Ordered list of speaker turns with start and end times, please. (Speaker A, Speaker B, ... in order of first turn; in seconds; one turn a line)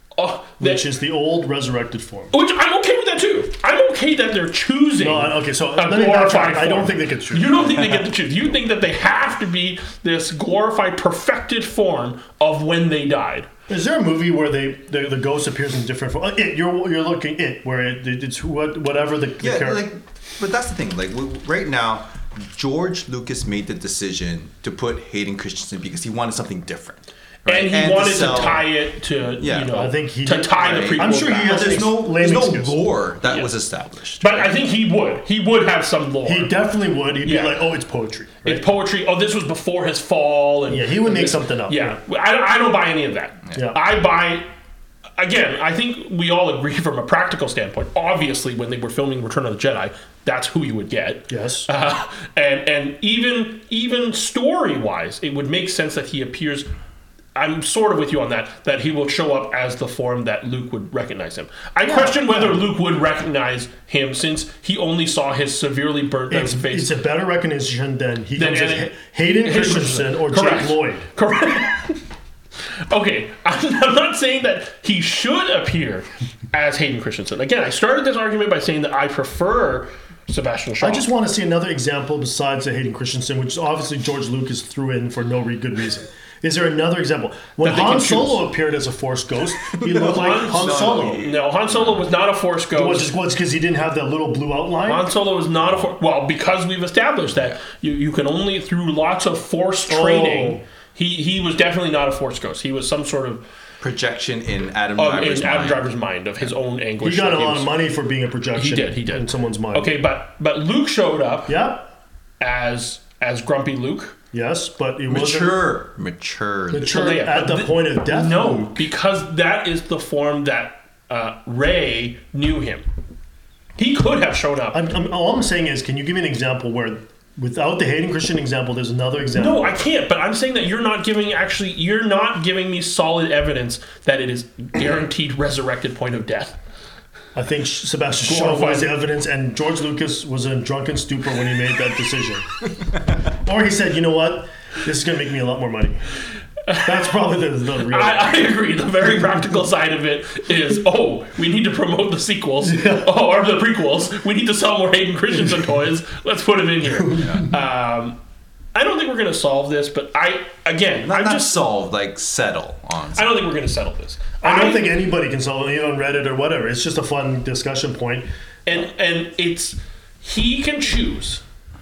Speaker A: 0.2-0.8
Speaker B: 0.6-2.3
Speaker A: 2.3-13.5
Speaker B: 5.0-7.8
Speaker B: 13.7-19.9
Speaker C: 19.4-28.7
Speaker A: 27.4-31.8
Speaker C: 29.4-29.7
Speaker B: 29.7-32.8
Speaker C: 30.5-34.5
Speaker A: 33.2-33.5
Speaker A: 34.2-36.5
Speaker B: 36.2-38.6
Speaker A: 37.2-37.6
Speaker A: 38.4-44.5
Speaker B: 40.7-42.0
Speaker B: 43.5-43.8
Speaker A: 45.2-56.7
Speaker B: 51.3-51.7
Speaker A: 57.3-66.9
Speaker B: 61.8-62.6
Speaker B: 66.3-71.1
Speaker A: 68.4-72.0
Speaker A: 72.9-81.0
Speaker B: 80.8-91.3
Speaker A: 87.6-88.4
Speaker C: 89.7-92.1
Speaker A: 90.0-93.1
Speaker B: 92.7-95.0
Speaker A: 94.8-103.4
Speaker C: 95.6-95.9
Speaker B: 99.8-100.6
Speaker C: 103.8-105.9
Speaker A: 105.0-107.8
Speaker B: 107.0-109.9
Speaker A: 108.5-111.6
Speaker B: 111.5-111.9
Speaker A: 112.4-114.1
Speaker B: 114.3-115.7
Speaker C: 115.1-117.1
Speaker B: 116.7-118.8
Speaker A: 116.9-122.8
Speaker A: 123.8-124.8
Speaker B: 124.7-129.8
Speaker A: 129.3-136.6
Speaker B: 137.3-142.5
Speaker A: 138.2-138.9
Speaker B: 143.3-146.0
Speaker B: 146.8-148.5
Speaker A: 147.9-158.2
Speaker B: 152.6-153.1
Speaker C: 157.1-157.5
Speaker A: 158.7-161.6
Speaker C: 161.1-163.4
Speaker A: 163.1-164.9
Speaker B: 164.4-168.3
Speaker A: 168.7-171.4